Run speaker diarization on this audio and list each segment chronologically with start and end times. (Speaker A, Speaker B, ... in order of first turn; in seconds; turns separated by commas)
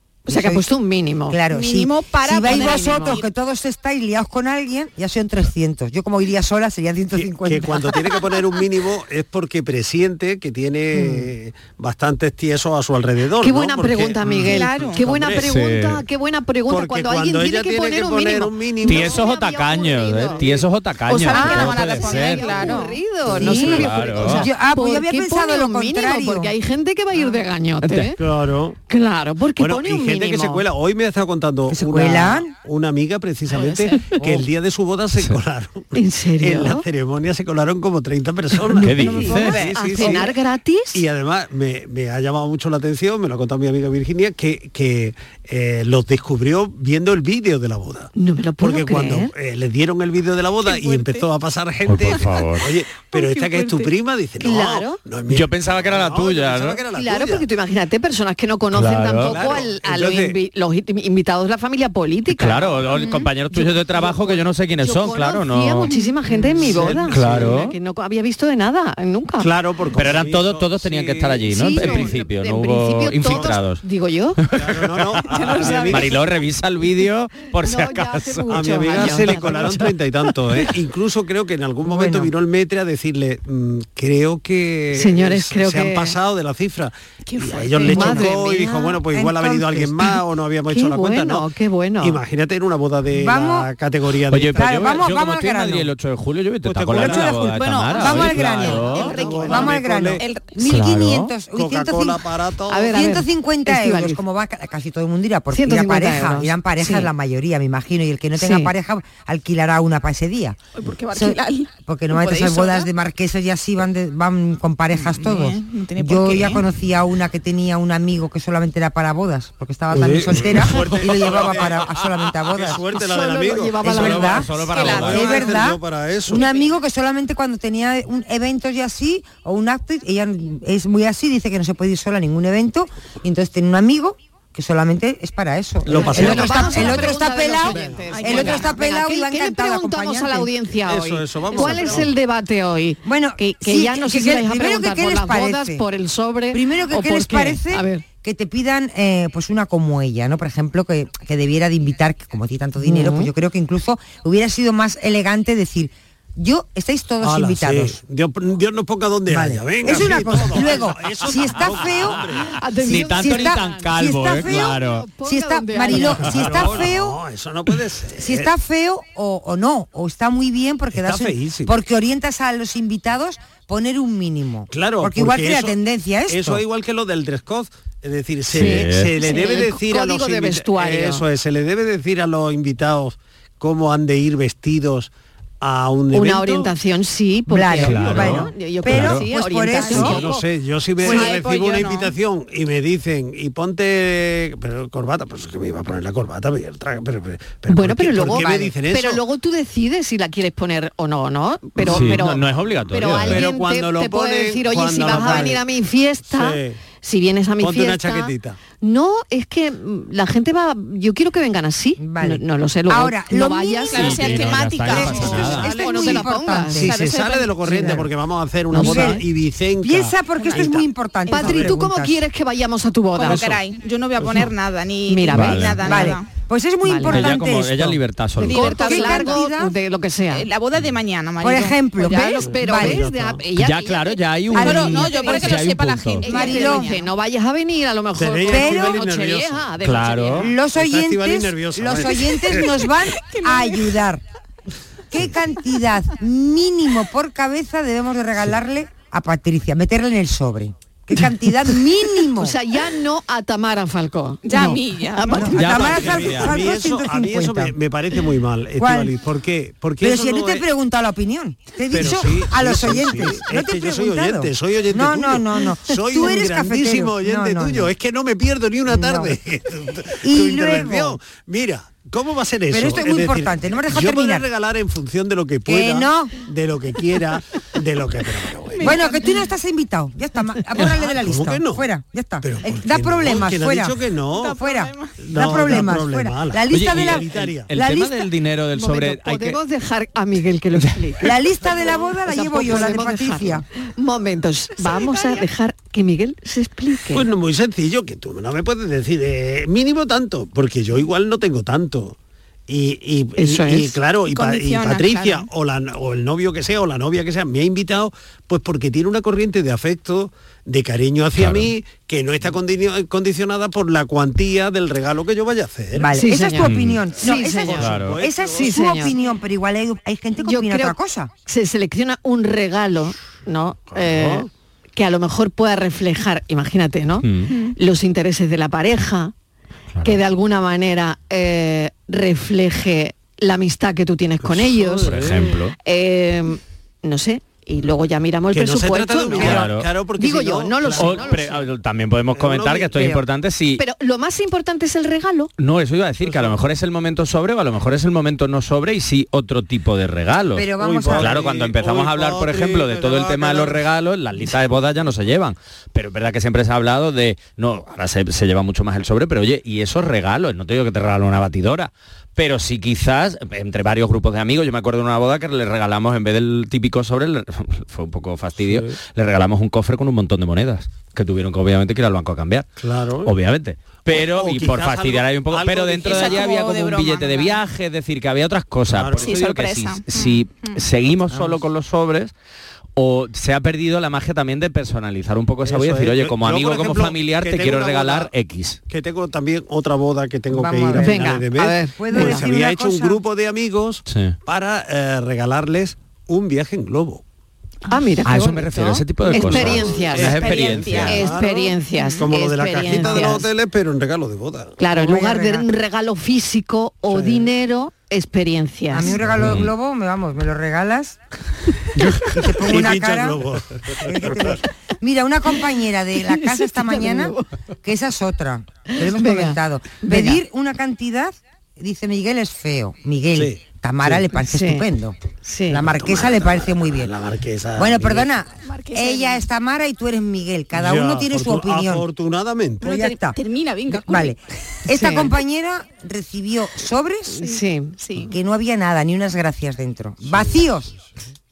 Speaker A: 0.2-0.7, Speaker B: 0.3-1.4, Speaker A: 1.3-8.2, Speaker C: 1.5-3.3, Speaker B: 2.4-3.2, Speaker D: 7.1-15.5, Speaker B: 13.4-20.5, Speaker C: 14.4-15.0, Speaker E: 15.3-16.0, Speaker D: 16.7-19.2, Speaker E: 18.8-24.5, Speaker C: 21.1-23.0, Speaker A: 21.4-21.6, Speaker B: 21.4-28.2, Speaker A: 23.3-26.5, Speaker E: 27.8-28.1, Speaker D: 28.2-28.8, Speaker B: 28.9-30.6, Speaker D: 29.6-40.4, Speaker A: 31.7-32.5, Speaker C: 33.6-34.1, Speaker B: 35.9-36.8, Speaker B: 38.7-41.0, Speaker E: 38.8-39.7, Speaker C: 39.1-40.1, Speaker A: 39.2-39.5, Speaker D: 40.9-57.5, Speaker B: 48.1-49.3, Speaker C: 50.6-51.3, Speaker E: 51.9-52.7, Speaker C: 53.0-53.9, Speaker B: 54.4-55.0, Speaker E: 55.3-56.8, Speaker B: 56.9-69.5, Speaker E: 58.7-59.6, Speaker D: 59.1-60.4, Speaker E: 62.3-65.9, Speaker D: 66.5-67.7, Speaker E: 67.1-67.7, Speaker D: 69.4-72.1, Speaker E: 69.9-73.8, Speaker B: 71.5-74.4, Speaker D: 73.2-73.6, Speaker E: 74.4-79.6, Speaker D: 74.5-76.2, Speaker B: 75.3-76.1, Speaker B: 77.6-79.9, Speaker D: 78.5-91.5, Speaker A: 81.8-82.3, Speaker B: 84.9-86.1, Speaker C: 87.2-88.2, Speaker B: 87.7-89.0, Speaker A: 87.9-88.3, Speaker A: 89.1-90.1, Speaker B: 90.7-92.2, Speaker D: 92.0-95.0, Speaker A: 93.1-93.7, Speaker E: 94.3-99.2, Speaker A: 94.5-95.9, Speaker D: 96.6-97.4, Speaker A: 96.9-102.2, Speaker D: 98.0-100.2, Speaker B: 98.8-99.6, Speaker C: 98.8-100.5, Speaker E: 100.6-101.3, Speaker D: 101.5-103.0, Speaker B: 102.7-104.2, Speaker A: 102.9-110.6, Speaker B: 105.5-107.1, Speaker B: 108.4-108.7, Speaker C: 110.7-112.9, Speaker A: 111.1-122.8, Speaker C: 114.9-116.6, Speaker D: 119.9-126.5, Speaker B: 122.9-124.7, Speaker A: 123.8-140.5, Speaker E: 123.9-125.4, Speaker C: 124.7-125.2, Speaker D: 135.8-138.4, Speaker B: 135.9-148.0, Speaker C: 138.1-138.7, Speaker D: 140.8-142.1, Speaker A: 143.0-145.8, Speaker A: 146.5-158.0, Speaker B: 152.8-153.3, Speaker D: 157.2-162.6, Speaker A: 159.3-162.2, Speaker B: 162.4-166.7, Speaker A: 162.9-167.2, Speaker E: 162.9-165.1, Speaker D: 165.9-168.5, Speaker A: 168.2-176.6, Speaker D: 170.9-171.7, Speaker D: 174.7-175.8, Speaker D: 176.3-186.7, Speaker E: 178.5-179.1, Speaker B: 178.6-181.2, Speaker B: 186.1-190.4, Speaker A: 187.5-190.2, Speaker E: 187.8-189.2, Speaker D: 189.9-199.2, Speaker C: 191.0-192.1, Speaker B: 197.7-216.8, Speaker A: 198.3-198.7, Speaker D: 201.8-202.1, Speaker E: 201.8-203.5, Speaker D: 203.2-205.6, Speaker D: 206.2-206.8, Speaker D: 207.6-208.6, Speaker A: 212.0-214.2, Speaker C: 213.9-216.2, Speaker E: 213.9-215.7, Speaker A: 214.8-216.9, Speaker D: 216.8-220.8, Speaker C: 216.8-217.7, Speaker B: 217.7-218.0, Speaker B: 218.7-219.2, Speaker A: 218.7-219.2, Speaker A: 219.8-222.2, Speaker C: 220.4-220.7, Speaker C: 221.3-221.6, Speaker B: 221.3-223.5, Speaker C: 223.2-226.3, Speaker D: 223.2-223.6, Speaker B: 225.1-226.1, Speaker E: 225.3-225.9, Speaker A: 225.8-228.0, Speaker B: 226.8-227.4, Speaker E: 227.1-228.9, Speaker C: 228.4-229.4, Speaker B: 228.4-230.4, Speaker A: 228.7-229.7, Speaker C: 230.3-232.6, Speaker A: 231.4-233.0, Speaker B: 232.1-235.6, Speaker D: 232.5-233.4, Speaker E: 233.6-236.3, Speaker A: 234.5-235.2, Speaker C: 234.5-237.1, Speaker B: 236.2-240.5, Speaker A: 236.2-236.9, Speaker D: 238.2-239.7, Speaker A: 238.5-239.0, Speaker E: 239.8-240.5, Speaker A: 240.3-244.2, Speaker D: 240.7-242.7, Speaker C: 243.2-243.9, Speaker A: 245.1-252.6, Speaker B: 252.3-255.7, Speaker C: 254.4-255.5, Speaker A: 255.3-257.7, Speaker E: 255.5-256.6, Speaker D: 255.5-260.6, Speaker A: 258.8-259.1, Speaker A: 260.0-267.9, Speaker D: 261.9-279.1, Speaker A: 268.9-269.4, Speaker A: 270.2-271.2, Speaker A: 272.7-274.5, Speaker A: 275.6-276.4, Speaker C: 278.8-279.3, Speaker A: 278.8-284.0, Speaker D: 280.8-281.9, Speaker D: 282.4-284.6, Speaker C: 284.3-285.2, Speaker A: 284.5-288.2, Speaker D: 285.2-287.7, Speaker E: 286.7-289.6, Speaker B: 288.7-291.7, Speaker A: 291.2-293.6, Speaker B: 292.2-297.2, Speaker C: 294.9-295.4, Speaker D: 297.1-302.1, Speaker D: 302.7-316.1, Speaker B: 303.4-304.0, Speaker C: 304.3-305.5, Speaker E: 311.4-311.7, Speaker A: 315.9-321.3, Speaker B: 316.1-317.9, Speaker E: 316.6-317.0, Speaker D: 317.2-318.8, Speaker E: 317.8-318.1, Speaker B: 318.4-319.1, Speaker B: 320.4-329.3, Speaker D: 323.9-324.5, Speaker E: 327.2-327.5, Speaker C: 327.5-327.7, Speaker E: 329.9-330.2, Speaker B: 330.0-335.1, Speaker D: 334.5-335.5, Speaker E: 335.0-335.7, Speaker B: 335.8-341.6, Speaker D: 338.5-341.6, Speaker E: 339.4-339.9, Speaker E: 341.0-343.8, Speaker D: 342.3-343.1, Speaker B: 343.8-345.5, Speaker E: 345.6-372.7, Speaker D: 346.2-346.6, Speaker A: 350.5-351.4, Speaker D: 350.8-353.8, Speaker D: 368.6-368.9, Speaker D: 372.8-373.3, Speaker E: 373.2-382.3, Speaker D: 374.1-376.5, Speaker C: 376.0-377.6, Speaker D: 378.9-379.4, Speaker C: 379.2-380.8, Speaker E: 382.9-388.8, Speaker D: 385.6-388.3, Speaker D: 388.9-397.2, Speaker A: 390.5-393.2, Speaker B: 391.0-392.4, Speaker E: 394.1-394.4, Speaker B: 397.9-403.5, Speaker E: 398.2-401.3, Speaker D: 399.3-404.8, Speaker C: 399.6-402.3, Speaker B: 404.8-409.1, Speaker A: 404.9-405.6, Speaker D: 407.1-407.5, Speaker A: 408.9-411.2, Speaker E: 409.4-409.7, Speaker A: 412.2-413.4, Speaker D: 412.5-414.6, Speaker A: 414.0-425.2, Speaker B: 416.2-417.4, Speaker B: 418.9-420.4, Speaker D: 423.3-424.3, Speaker B: 424.4-424.9, Speaker B: 425.4-425.8, Speaker A: 425.7-427.1, Speaker D: 425.8-428.3, Speaker A: 427.8-432.0, Speaker C: 428.6-429.4, Speaker D: 430.7-433.0, Speaker A: 432.8-437.5, Speaker C: 432.9-434.4, Speaker B: 434.9-435.3, Speaker B: 437.4-437.9, Speaker C: 438.0-438.3, Speaker A: 438.2-440.9, Speaker D: 440.3-440.6